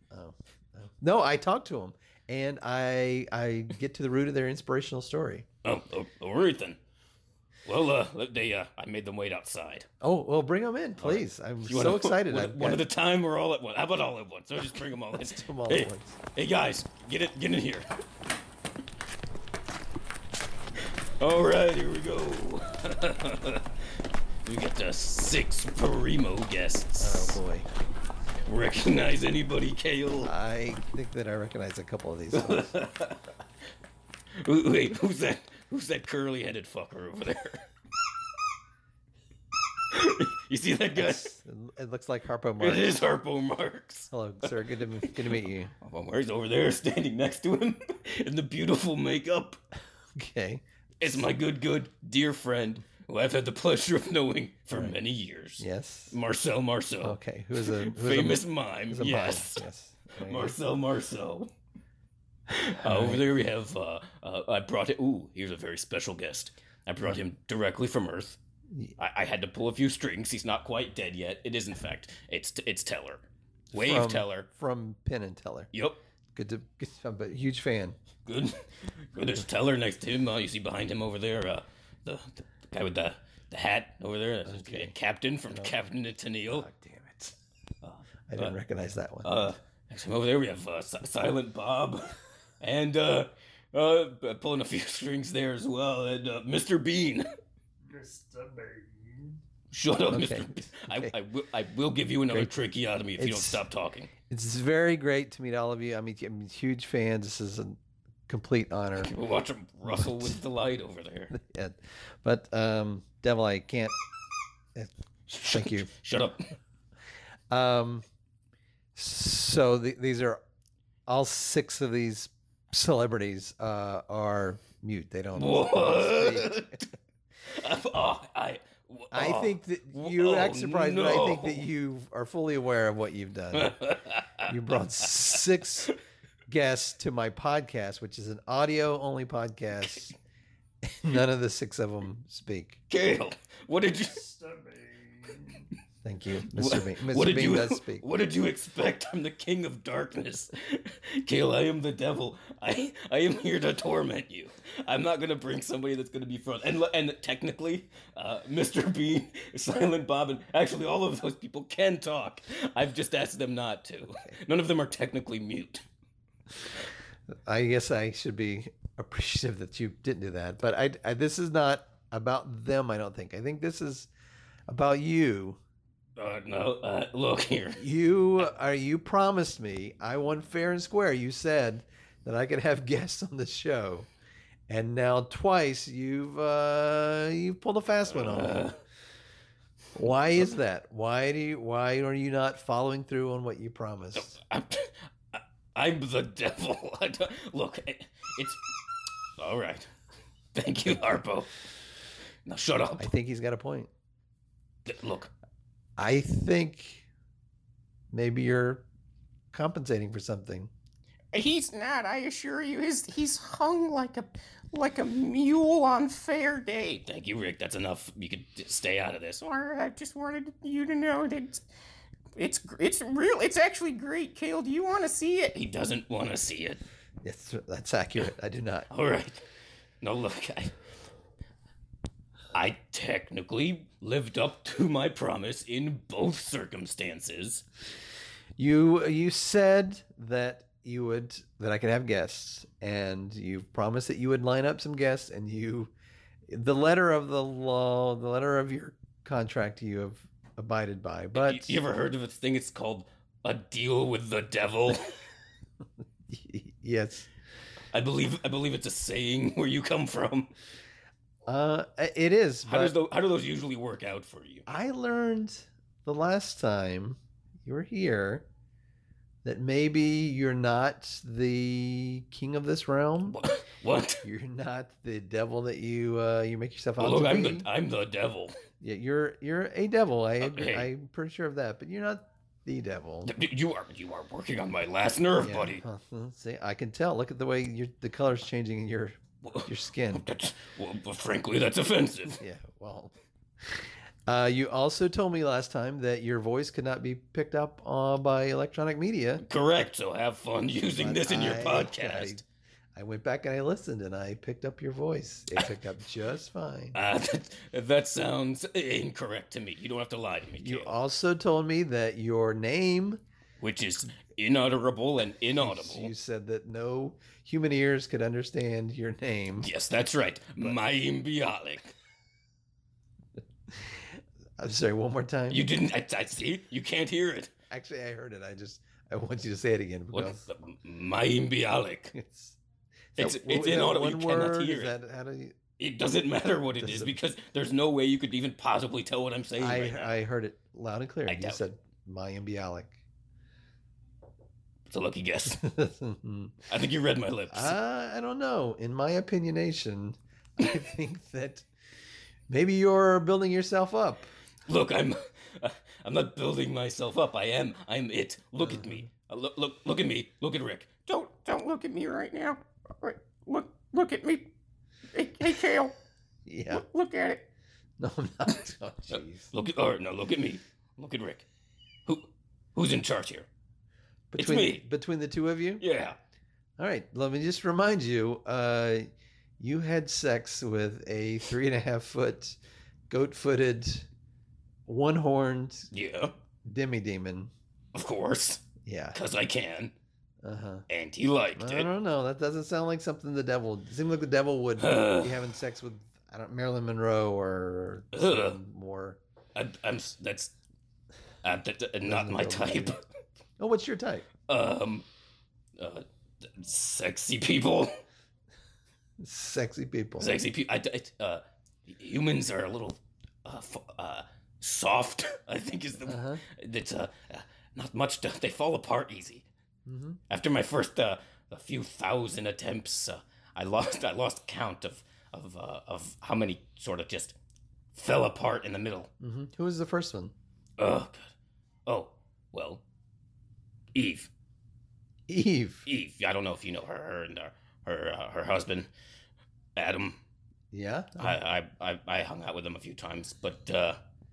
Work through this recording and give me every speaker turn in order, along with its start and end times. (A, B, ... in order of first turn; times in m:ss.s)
0:00.1-0:05.4 A
0:05.6-0:06.8 B
0:07.6-0:09.9 B
0:10.0-0:12.8 A
0:11.0-0:17.9 B
0:15.2-0:16.2 A
0:21.2-0:27.4 B
0:27.0-0:27.7 A
0:28.5-0:30.3 B
0:30.2-0:32.7 A
0:32.3-0:33.2 B
0:34.4-0:37.6 B
0:39.9-0:41.3 B
0:40.9-0:43.0 A
0:42.6-0:44.1 B
0:44.1-0:45.7 A
0:45.0-0:49.6 B
0:50.2-0:51.2 A
0:51.0-1:01.5 B
0:54.7-0:55.0 A
0:55.6-0:56.1 A
0:57.0-1:00.6 A
1:02.5-1:08.4 B
1:02.8-1:03.2 A
1:09.0-1:14.5 B
1:13.7-1:15.7 A
1:15.7-1:16.0 B
1:16.3-1:18.0 A
1:18.2-1:26.6 B
1:24.4-1:24.9 A
1:26.5-1:27.4 A
1:27.8-1:28.5 B
1:28.3-1:29.4 A
1:29.2-1:37.3 B
1:39.7-1:44.1 B
1:40.1-1:41.1 A
1:43.2-1:43.6 A
1:44.3-1:49.1 A
1:49.0-1:51.3 B
1:49.8-1:50.4 A
1:51.3-1:54.0 A
1:55.3-1:56.5 B
1:55.5-1:55.9 A
1:57.5-1:58.0 A
1:58.9-2:00.4 A
2:01.1-2:06.6 A
2:05.3-2:06.9 B
2:07.4-2:11.6 B
2:09.1-2:13.7 A
2:13.5-2:14.5 B
2:14.4-2:15.9 A
2:16.5-2:20.2 A
2:20.8-2:22.8 A
2:22.9-2:25.6 B
2:26.0-2:28.0 A
2:26.5-2:45.8 B
2:47.3-2:54.1 A
2:54.7-2:55.6 A
2:56.2-2:57.8 B
2:57.8-3:04.1 A
3:04.7-3:08.7 A
3:08.1-3:08.8 B
3:09.9-3:14.3 A
3:14.1-3:18.6 B
3:19.4-3:19.9 B
3:20.5-3:21.7 B
3:22.4-3:23.1 B
3:23.0-3:23.9 A
3:24.8-3:25.3 B
3:26.0-3:27.0 A
3:28.1-3:28.8 A
3:29.5-3:30.7 A
3:31.3-3:37.0 C
3:37.0-3:39.4 B
3:39.4-3:41.6 C
3:42.4-3:45.6 C
3:45.5-3:46.8 B
3:47.2-3:48.9 A
3:48.9-3:49.4 B
3:50.0-3:50.7 B
3:52.5-3:57.6 B
3:58.6-4:05.9 A
4:06.5-4:11.8 A
4:11.3-4:15.1 B
4:16.3-4:17.3 A
4:17.9-4:20.5 B
4:21.4-4:23.0 A
4:22.6-4:24.6 B
4:24.7-4:28.4 A
4:29.4-4:33.4 A
4:33.3-4:34.2 B
4:34.2-4:37.7 A
4:37.0-4:38.5 B
4:38.8-4:43.3 A
4:40.4-4:40.9 B
4:43.2-4:45.8 B
4:45.4-4:50.2 A
4:49.4-4:52.4 B
4:52.4-4:59.4 A
4:59.4-5:02.4 B
5:00.9-5:02.4 A
5:02.9-5:07.0 A
5:06.9-5:10.9 B
5:10.6-5:13.2 A
5:13.6-5:16.1 B
5:15.6-5:19.7 A
5:19.6-5:21.9 B
5:23.7-5:25.6 A
5:25.5-5:27.5 B
5:27.7-5:30.4 A
5:30.1-5:32.1 B
5:32.1-5:32.6 A
5:33.2-5:35.6 A
5:33.2-5:34.9 B
5:35.8-5:40.1 B
5:36.8-5:37.1 A
5:39.6-5:43.0 A
5:41.3-5:41.6 B
5:44.9-5:45.6 B
5:45.5-5:46.6 A
5:46.7-5:47.8 B
5:47.5-5:51.6 A
5:52.5-5:54.3 A
5:54.7-6:00.9 B
5:58.6-5:59.0 A
6:01.0-6:04.5 C
6:05.1-6:05.9 C
6:06.4-6:06.8 A
6:06.7-6:07.4 C
6:08.0-6:09.5 A
6:09.5-6:11.4 B
6:12.0-6:13.5 B
6:14.3-6:15.8 A
6:14.4-6:14.8 B
6:15.8-6:16.2 B
6:16.8-6:22.6 A
6:23.1-6:24.1 A
6:24.8-6:25.9 A
6:25.9-6:26.3 B
6:26.6-6:27.5 A
6:27.9-6:29.9 B
6:28.8-6:29.2 A
6:30.4-6:30.8 A
6:30.9-6:31.9 B
6:31.6-6:39.2 A
6:34.8-6:35.4 B
6:38.1-6:38.6 B
6:39.5-6:40.5 B
6:41.4-6:43.0 B
6:42.0-6:43.0 A
6:43.6-6:44.3 A
6:44.5-6:45.0 B
6:45.8-6:47.9 B
6:49.2-6:50.4 A
6:50.2-6:59.4 B
6:56.0-6:56.4 A
6:59.8-7:00.2 A
7:00.3-7:07.4 B
7:07.9-7:09.1 B
7:09.2-7:10.3 A
7:10.8-7:11.3 B
7:11.8-7:12.8 B
7:13.9-7:14.3 B
7:15.3-7:15.8 A
7:15.8-7:18.9 B
7:19.8-7:20.2 B
7:20.7-7:21.4 A
7:21.2-7:24.0 B